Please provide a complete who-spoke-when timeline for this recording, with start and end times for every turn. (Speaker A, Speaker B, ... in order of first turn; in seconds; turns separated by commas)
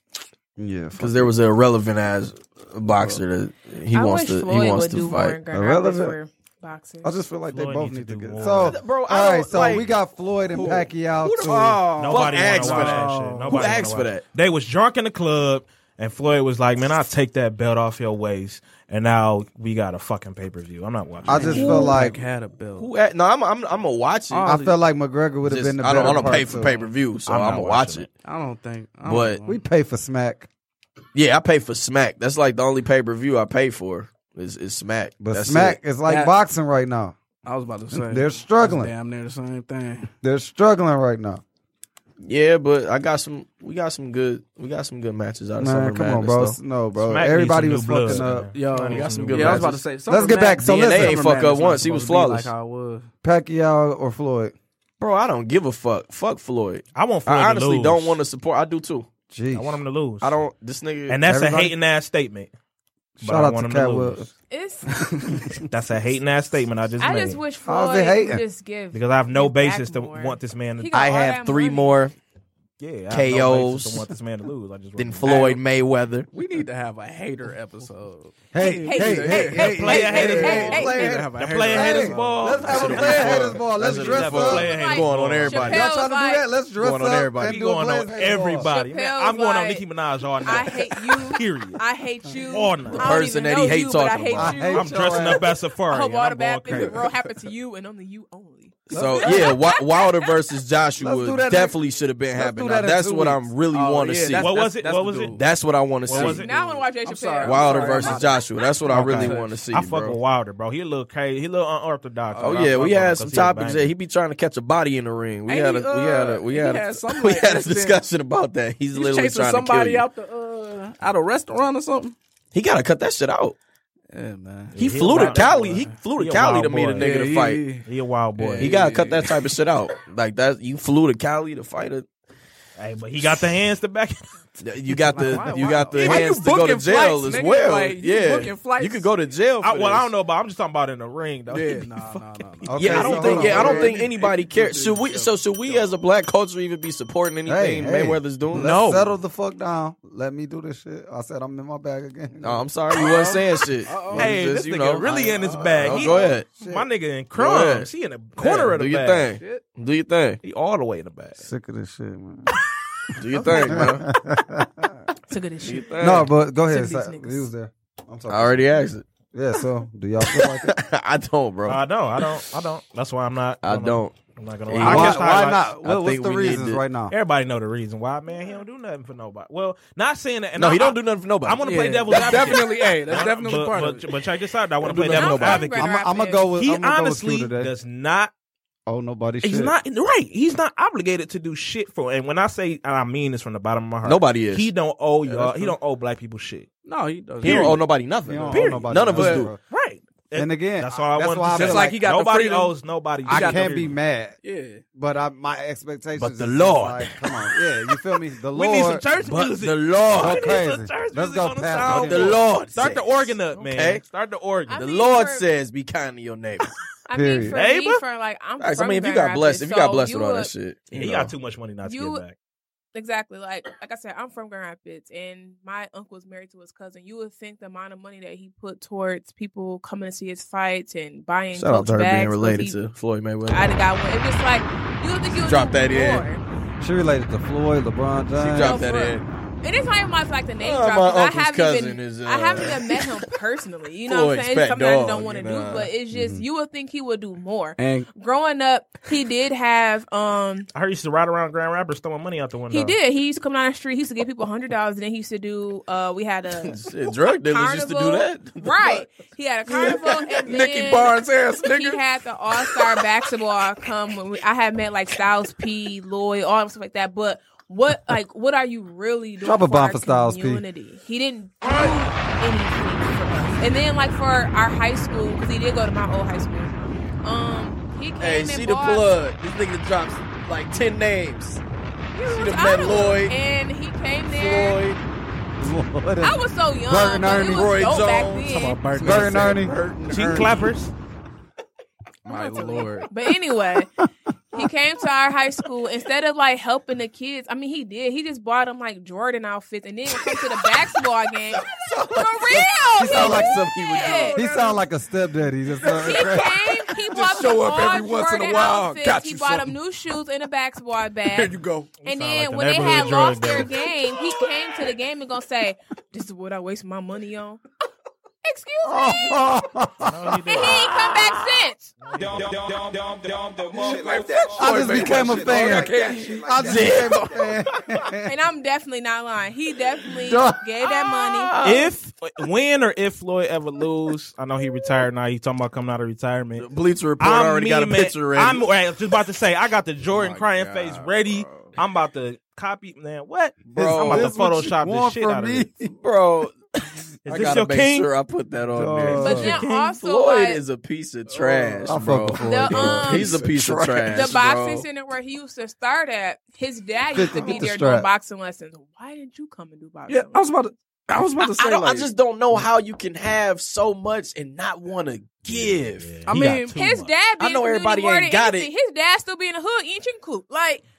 Speaker A: 0.6-1.3, Speaker B: 1.0-5.4, Speaker C: 3.9-7.2, Speaker A: 5.5-6.2, Speaker A: 7.0-13.8, Speaker D: 7.5-8.8, Speaker B: 8.6-9.9, Speaker E: 10.5-13.8, Speaker D: 12.0-21.6, Speaker B: 12.1-14.2, Speaker A: 21.2-22.2, Speaker E: 21.3-22.9, Speaker C: 21.5-22.0, Speaker B: 22.8-24.6, Speaker E: 24.3-24.7, Speaker A: 24.4-26.7, Speaker B: 25.4-28.1, Speaker E: 25.9-26.9, Speaker D: 27.2-28.1, Speaker E: 28.2-29.6, Speaker B: 29.1-29.4, Speaker A: 29.4-30.5, Speaker B: 31.1-35.9, Speaker A: 35.2-37.1, Speaker E: 36.0-36.3, Speaker E: 37.4-40.1, Speaker A: 37.9-38.9, Speaker A: 40.2-41.4, Speaker B: 42.2-46.6, Speaker A: 45.6-48.5, Speaker D: 47.0-49.7, Speaker E: 48.1-53.1, Speaker B: 48.9-49.8, Speaker A: 50.1-51.2, Speaker B: 50.6-52.5, Speaker A: 53.2-54.5, Speaker B: 55.0-59.1, Speaker D: 56.9-58.2, Speaker A: 59.3-59.8, Speaker D: 59.5-60.4, Speaker B: 60.2-61.2, Speaker D: 61.1-62.5, Speaker A: 61.2-61.7, Speaker A: 63.2-64.3, Speaker D: 63.2-64.3, Speaker C: 64.5-64.9, Speaker D: 65.7-67.4, Speaker C: 67.0-72.0, Speaker A: 67.6-68.4, Speaker D: 68.9-70.9, Speaker B: 70.9-72.1, Speaker D: 72.8-75.5, Speaker B: 73.1-74.1, Speaker B: 75.0-76.3, Speaker E: 75.2-75.6, Speaker E: 76.3-82.6, Speaker A: 78.5-84.7, Speaker C: 78.6-79.5, Speaker D: 79.5-85.8, Speaker C: 80.4-81.0, Speaker B: 81.7-85.9, Speaker C: 84.6-86.4, Speaker A: 85.7-88.7, Speaker B: 86.8-87.6, Speaker D: 87.5-91.8, Speaker C: 88.6-89.8, Speaker C: 90.4-100.3, Speaker D: 92.5-93.2, Speaker B: 92.9-94.8, Speaker A: 94.3-95.5, Speaker D: 94.7-97.0, Speaker B: 98.9-104.5, Speaker A: 98.9-99.6, Speaker A: 101.0-103.5, Speaker E: 103.7-105.5, Speaker D: 104.3-105.4, Speaker B: 105.4-106.4, Speaker E: 106.0-109.7, Speaker D: 106.1-106.5, Speaker C: 106.1-108.4, Speaker B: 107.4-110.2, Speaker D: 108.9-113.9, Speaker E: 112.3-113.3, Speaker B: 112.4-120.0, Speaker E: 115.5-118.0, Speaker E: 118.9-122.2, Speaker B: 122.5-123.5, Speaker E: 124.1-126.0, Speaker D: 124.7-127.3, Speaker B: 124.7-127.6, Speaker E: 127.0-129.4, Speaker D: 127.8-128.7, Speaker B: 128.6-132.1, Speaker D: 132.8-134.2, Speaker B: 134.6-140.1, Speaker E: 135.1-139.1, Speaker D: 135.1-137.3, Speaker D: 139.6-143.5, Speaker E: 141.5-145.9, Speaker A: 142.7-143.9, Speaker B: 142.7-148.7, Speaker A: 147.4-152.6, Speaker D: 148.5-149.1, Speaker B: 152.4-155.0, Speaker E: 153.0-154.3, Speaker D: 154.1-159.3, Speaker E: 155.0-156.3, Speaker B: 155.7-156.5, Speaker A: 156.6-156.9, Speaker B: 157.3-160.4, Speaker E: 159.3-159.7, Speaker D: 160.4-161.4, Speaker A: 161.4-162.6, Speaker B: 163.1-164.1, Speaker A: 163.6-165.1, Speaker C: 165.3-167.5, Speaker B: 165.6-166.3, Speaker A: 166.0-168.7, Speaker B: 168.3-169.1, Speaker A: 169.3-170.7, Speaker B: 170.3-172.3, Speaker D: 171.7-175.7, Speaker B: 173.6-174.2, Speaker B: 174.7-176.8, Speaker A: 174.8-177.1, Speaker D: 177.1-185.9, Speaker B: 180.6-182.7, Speaker E: 181.6-184.1, Speaker B: 184.8-185.6, Speaker C: 185.2-186.5, Speaker A: 185.8-187.7, Speaker D: 186.6-188.3, Speaker A: 188.9-189.7, Speaker D: 189.4-196.7, Speaker B: 194.0-194.7, Speaker E: 195.3-195.7, Speaker E: 196.8-197.8, Speaker B: 197.4-199.5, Speaker D: 197.4-197.8, Speaker A: 198.2-199.6, Speaker E: 198.5-199.5, Speaker D: 199.6-203.9, Speaker A: 200.3-202.0, Speaker E: 201.5-203.9, Speaker A: 203.3-204.3, Speaker E: 204.4-204.8, Speaker A: 204.9-209.0, Speaker D: 206.2-207.2, Speaker D: 208.5-214.8, Speaker B: 209.2-210.6, Speaker A: 210.2-212.4, Speaker B: 211.8-214.0, Speaker C: 214.7-215.4, Speaker B: 214.7-216.7, Speaker C: 217.1-220.5, Speaker A: 217.1-217.5, Speaker D: 217.5-218.0, Speaker B: 218.6-221.3, Speaker D: 220.9-222.3, Speaker C: 221.8-222.2, Speaker C: 222.9-232.8, Speaker B: 231.5-233.8, Speaker C: 233.5-236.4, Speaker B: 235.3-236.2, Speaker A: 236.8-238.8, Speaker B: 238.4-239.2, Speaker C: 238.5-250.7, Speaker B: 240.6-243.3, Speaker B: 244.1-245.9, Speaker A: 246.1-246.4, Speaker E: 247.8-248.1, Speaker D: 250.7-252.9, Speaker C: 252.7-279.1, Speaker B: 256.6-259.1, Speaker E: 259.7-262.0, Speaker A: 269.4-270.6, Speaker B: 278.2-281.6, Speaker C: 282.1-284.8, Speaker B: 282.2-283.4, Speaker B: 284.3-285.0, Speaker A: 285.6-287.9, Speaker C: 286.2-288.8, Speaker B: 287.5-290.4, Speaker E: 288.4-290.6, Speaker A: 289.0-289.8, Speaker D: 290.1-290.9, Speaker E: 292.2-293.1, Speaker C: 292.3-293.9, Speaker C: 294.5-304.7, Speaker B: 301.9-302.6, Speaker A: 302.9-306.5, Speaker B: 303.1-304.4, Speaker E: 305.8-309.8, Speaker C: 306.0-317.6, Speaker E: 311.3-311.9, Speaker D: 312.0-313.7, Speaker C: 318.4-319.5, Speaker A: 318.8-320.7, Speaker D: 320.0-320.8, Speaker C: 320.5-321.9, Speaker D: 322.0-322.6, Speaker E: 323.7-326.9, Speaker A: 323.7-328.3, Speaker B: 325.0-325.9, Speaker B: 326.5-327.6, Speaker C: 328.3-331.5, Speaker A: 330.2-330.6, Speaker B: 330.8-331.9, Speaker D: 331.6-336.7, Speaker B: 336.6-338.6, Speaker D: 337.2-345.7, Speaker B: 340.1-341.7, Speaker B: 343.6-344.3, Speaker A: 343.7-345.9, Speaker B: 345.8-346.6, Speaker D: 347.2-348.1, Speaker B: 347.2-354.9, Speaker A: 348.7-349.6, Speaker C: 349.2-350.6, Speaker D: 349.2-349.9, Speaker E: 351.3-352.0, Speaker A: 351.9-354.4, Speaker C: 352.4-353.4, Speaker C: 354.1-360.5, Speaker A: 357.1-358.1, Speaker E: 360.1-362.1, Speaker B: 361.4-366.2, Speaker D: 365.5-367.1, Speaker E: 366.2-366.8, Speaker C: 366.7-370.8, Speaker B: 367.4-368.7